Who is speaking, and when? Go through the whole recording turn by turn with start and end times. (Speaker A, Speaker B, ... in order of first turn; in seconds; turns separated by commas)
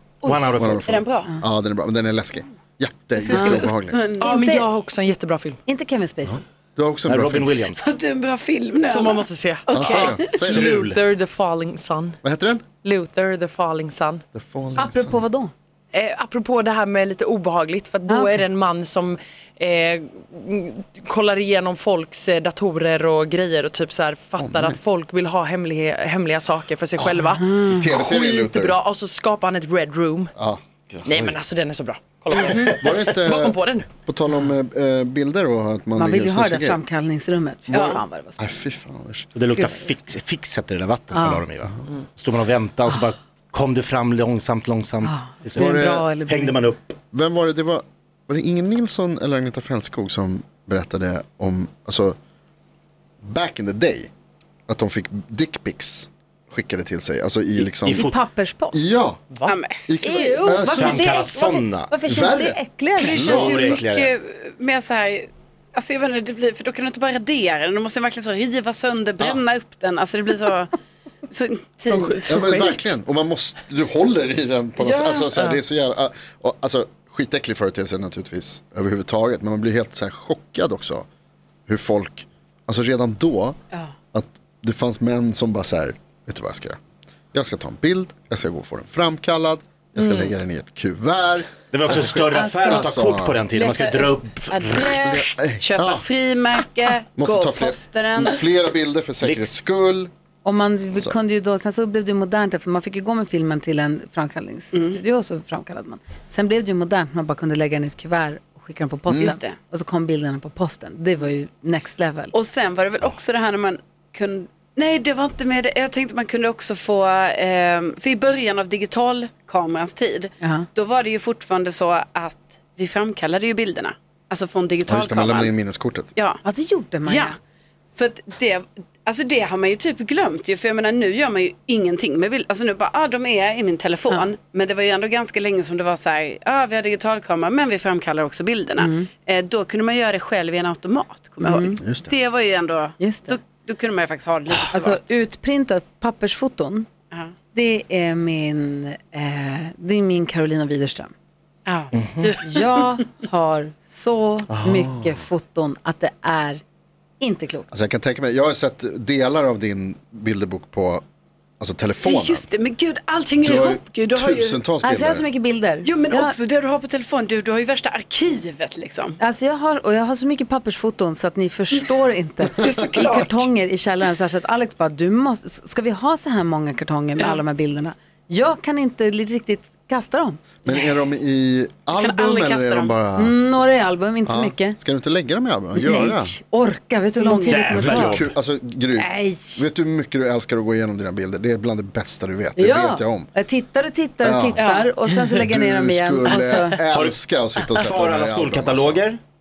Speaker A: 0.2-1.3, Speaker B: 0.2-1.0, Speaker C: 0.5-4.0, Speaker D: 3.2-4.7, Speaker A: 3.3-4.3, Speaker E: 4.2-5.6, Speaker D: 5.7-6.4, Speaker C: 6.2-7.5, Speaker B: 7.1-7.8, Speaker A: 7.7-10.4, Speaker E: 8.8-12.2, Speaker C: 9.7-10.8, Speaker B: 10.0-11.0, Speaker C: 12.2-12.7, Speaker E: 12.8-14.2, Speaker C: 14.3-15.2, Speaker D: 14.8-15.5, Speaker E: 15.9-30.3, Speaker D: 18.1-18.4, Speaker C: 24.4-24.8, Speaker D: 27.3-27.8, Speaker C: 27.7-28.8, Speaker C: 30.4-31.4, Speaker E: 31.0-33.9, Speaker C: 32.3-36.8, Speaker D: 35.9-38.6, Speaker A: 37.7-38.0, Speaker C: 38.4-39.3, Speaker B: 39.4-47.0, Speaker D: 41.1-41.4, Speaker D: 45.0-46.6, Speaker C: 45.5-46.0, Speaker C: 47.1-52.1, Speaker C: 53.2-54.1, Speaker C: 54.7-58.1, Speaker B: 57.6-58.1, Speaker D: 57.9-58.8, Speaker C: 58.7-59.2, Speaker E: 59.3-59.6, Speaker A: 59.5-60.5, Speaker C: 59.9-61.0, Speaker D: 60.0-63.3, Speaker B: 60.7-61.9, Speaker C: 62.0-62.6, Speaker A: 63.0-70.7, Speaker C: 63.1-63.8, Speaker B: 63.1-64.1, Speaker A: 71.3-72.5, Speaker E: 71.9-72.8, Speaker C: 72.3-81.0, Speaker D: 74.8-75.3, Speaker E: 75.3-75.6, Speaker C: 81.7-83.6, Speaker C: 84.1-86.8, Speaker C: 87.3-93.4, Speaker B: 91.7-94.9, Speaker D: 92.3-92.9, Speaker A: 93.5-98.4, Speaker C: 94.8-96.1, Speaker C: 97.2-100.1, Speaker B: 99.2-99.5, Speaker D: 100.4-112.3, Speaker C: 109.1-109.3, Speaker A: 109.2-109.6, Speaker A: 112.3-125.5, Speaker D: 120.4-120.7, Speaker C: 124.9-126.1, Speaker A: 126.1-126.4, Speaker D: 126.4-127.3, Speaker A: 127.0-127.3, Speaker A: 127.9-145.0, Speaker D: 138.8-139.1, Speaker D: 141.4-141.8, Speaker C: 141.8-142.1, Speaker D: 143.0-143.3, Speaker D: 144.7-146.9, Speaker D: 147.5-151.1, Speaker A: 151.7-152.8, Speaker D: 152.4-156.6, Speaker C: 154.5-155.2, Speaker D: 157.2-157.7, Speaker C: 157.7-161.0, Speaker C: 161.6-162.4, Speaker A: 162.0-164.6, Speaker C: 163.4-165.2, Speaker D: 164.8-166.3, Speaker A: 165.8-169.2, Speaker D: 169.2-180.4, Speaker A: 172.6-173.4, Speaker C: 180.6-183.4, Speaker A: 181.9-182.9, Speaker D: 183.2-184.8, Speaker C: 184.2-186.4, Speaker D: 185.8-188.3, Speaker A: 187.2-187.6, Speaker B: 187.4-188.3, Speaker C: 187.7-193.3, Speaker D: 188.9-189.6, Speaker D: 192.6-196.8, Speaker C: 194.2-194.6, Speaker A: 194.6-194.9, Speaker C: 195.2-199.0, Speaker B: 196.9-199.2